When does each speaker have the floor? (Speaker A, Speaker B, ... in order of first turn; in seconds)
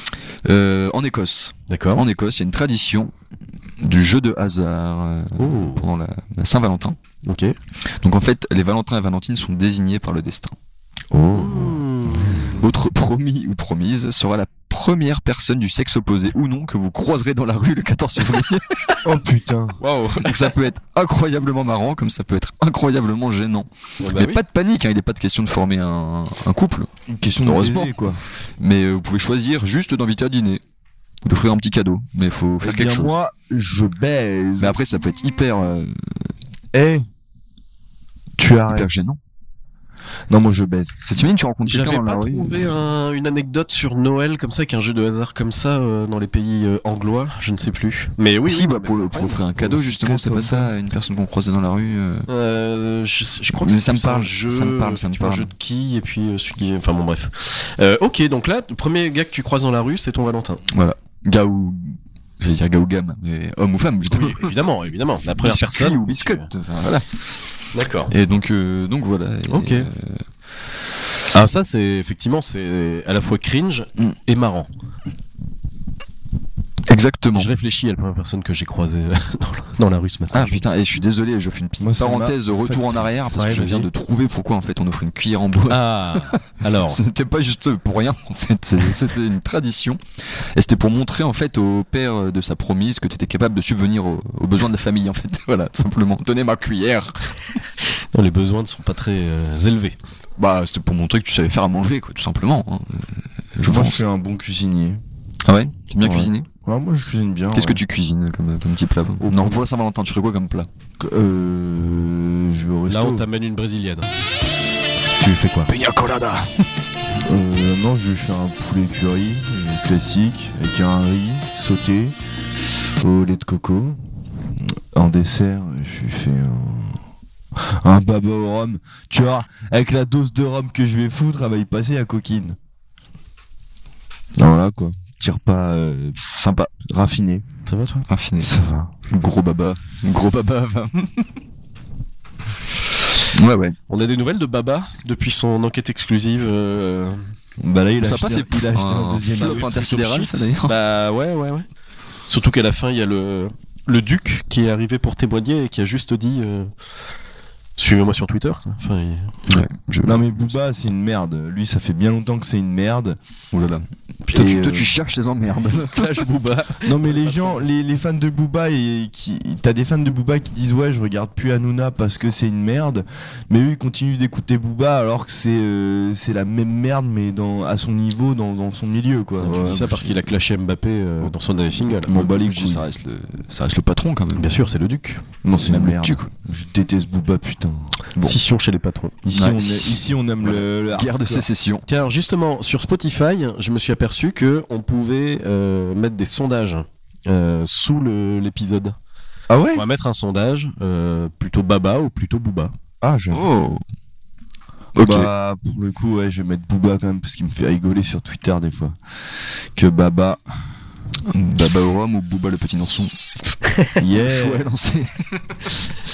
Speaker A: 0.5-3.1, 3.8-7.0, 8.0-10.6, 12.6-18.9, 20.2-26.9, 27.4-30.6, 31.2-33.1, 34.6-36.3, 38.7-39.2, 41.1-42.8, 48.5-52.3, 53.5-55.5, 60.7-64.5, 65.4-67.2, 68.1-70.2, 76.9-77.5, 80.3-97.4, 100.4-104.0, 105.5-106.5, 107.5-110.7, 115.7-116.5, 136.2-136.7, 138.1-141.3, 143.3-143.8, 148.0-150.8, 159.5-160.2, 163.5-166.2, 179.4-180.2, 182.0-184.5, 185.6-186.3, 189.3-191.9, 203.3-203.8, 204.9-205.3, 211.3-213.1, 214.2-215.9
Speaker B: 1.7-2.0, 5.4-5.8, 7.2-7.6, 11.3-12.6, 19.8-20.5, 24.0-24.4, 41.7-49.4, 52.3-60.6, 64.1-66.5, 67.7-68.1, 69.5-69.9, 71.3-74.7, 77.3-80.6, 83.3-83.9, 85.7-87.0, 98.1-100.0, 109.2-109.5, 112.9-114.1, 115.2-115.7, 137.7-138.1, 143.9-147.3, 149.3-151.7, 152.3-156.7, 157.8-159.4, 165.5-167.6, 179.5-182.1, 184.3-185.2, 188.2-189.2, 191.9-198.9, 199.7-202.7
Speaker C: 11.1-11.8, 19.0-19.8, 27.1-28.2, 32.6-34.8, 36.7-37.0, 38.4-39.0, 40.3-41.0, 49.6-50.7, 81.8-83.3, 103.6-105.0, 106.0-107.8, 111.0-113.3, 117.2-122.2, 123.0-127.0, 127.8-132.6, 134.4-136.2, 136.8-137.4, 138.4-138.9, 147.6-149.7, 160.0-163.2, 164.3-165.0, 166.8-179.8, 182.1-182.8, 185.4-187.9, 189.2-191.4, 199.5-199.8, 203.0-203.5, 205.0-209.0, 209.8-210.4, 214.0-214.7